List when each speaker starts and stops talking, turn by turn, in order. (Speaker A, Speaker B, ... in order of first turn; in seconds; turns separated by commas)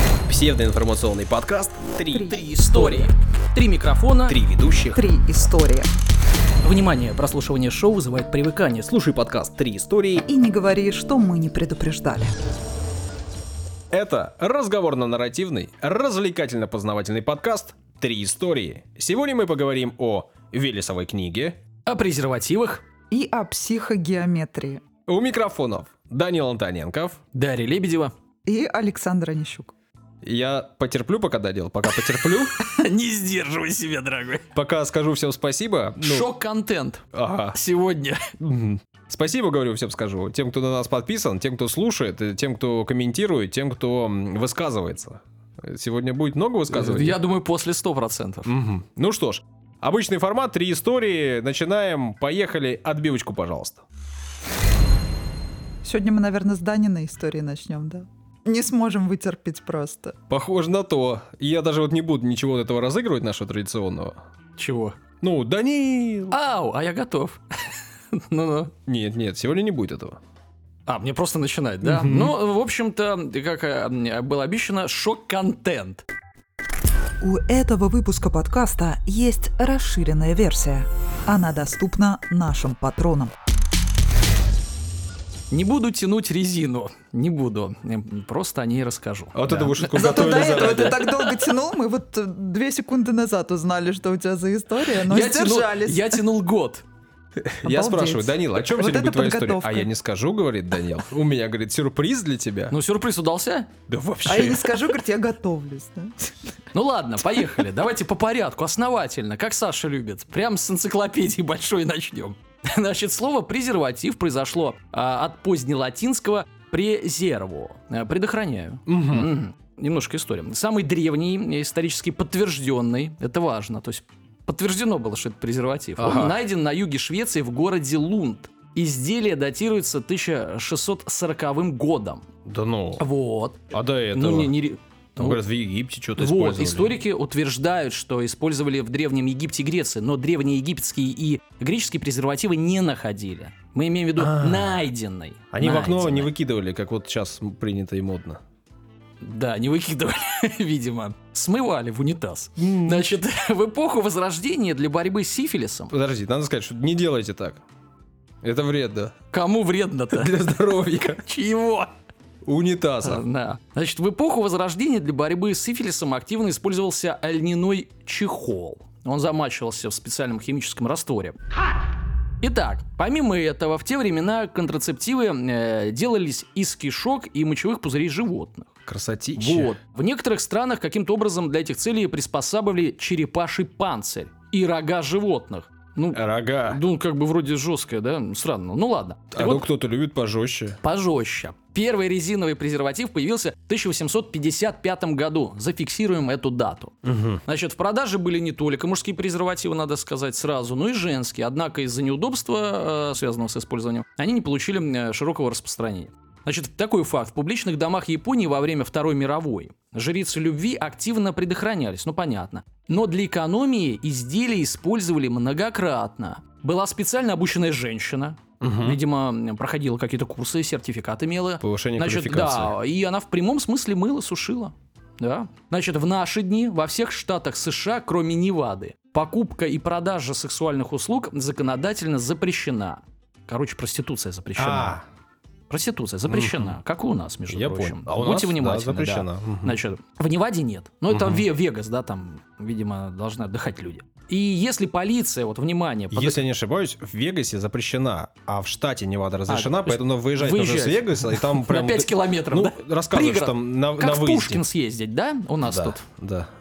Speaker A: 0.3-2.3, Speaker B: 2.1-3.1, Speaker C: 2.1-4.4, Speaker A: 4.3-5.0, Speaker B: 5.0-5.9, Speaker C: 6.6-8.9, Speaker A: 8.9-10.3, Speaker B: 10.3-12.3, Speaker A: 13.9-21.6, Speaker C: 21.9-22.8, Speaker B: 23.1-24.8, Speaker A: 25.1-27.2, Speaker C: 27.3-28.1, Speaker B: 28.5-29.7, Speaker A: 30.2-32.6, Speaker C: 31.9-34.5, Speaker A: 34.5-36.3, Speaker C: 36.0-38.3, Speaker A: 37.1-37.6, Speaker A: 38.4-47.2, Speaker C: 46.7-48.5, Speaker A: 48.5-53.8, Speaker B: 55.8-60.2, Speaker A: 60.3-64.2, Speaker C: 64.6-65.0, Speaker A: 65.2-66.4, Speaker C: 66.3-68.7, Speaker A: 68.9-70.2, Speaker C: 70.9-76.0, Speaker A: 71.8-72.3, Speaker B: 77.2-83.3, Speaker C: 85.5-91.3, Speaker A: 89.3-91.1, Speaker B: 90.0-96.2, Speaker C: 95.0-96.8, Speaker A: 97.4-102.8, Speaker B: 97.7-99.9, Speaker C: 102.7-103.7, Speaker A: 103.9-104.8, Speaker B: 104.2-106.3, Speaker C: 106.7-132.2, Speaker A: 118.9-119.3, Speaker A: 126.0-126.4, Speaker A: 132.4-133.1, Speaker C: 133.0-133.6, Speaker A: 133.7-134.5, Speaker C: 134.1-135.4, Speaker A: 135.2-137.0, Speaker C: 136.2-146.3, Speaker A: 144.2-144.8, Speaker A: 145.5-148.4, Speaker C: 149.2-155.9, Speaker A: 152.6-153.1, Speaker A: 155.9-157.6, Speaker A: 158.4-159.2, Speaker C: 159.3-161.9, Speaker A: 160.1-161.2, Speaker A: 162.4-163.2, Speaker C: 163.0-171.4, Speaker C: 172.4-178.7, Speaker A: 178.9-179.8, Speaker C: 179.4-189.7, Speaker A: 186.1-186.8, Speaker A: 189.3-190.8, Speaker C: 190.8-235.0, Speaker A: 197.0-197.4, Speaker A: 218.6-219.0, Speaker A: 221.6-222.8, Speaker A: 234.6-235.0, Speaker C: 235.7-246.4, Speaker A: 236.3-236.7, Speaker A: 237.5-239.8, Speaker A: 241.1-241.4, Speaker A: 246.1-254.6, Speaker C: 249.5-256.0, Speaker A: 255.6-256.5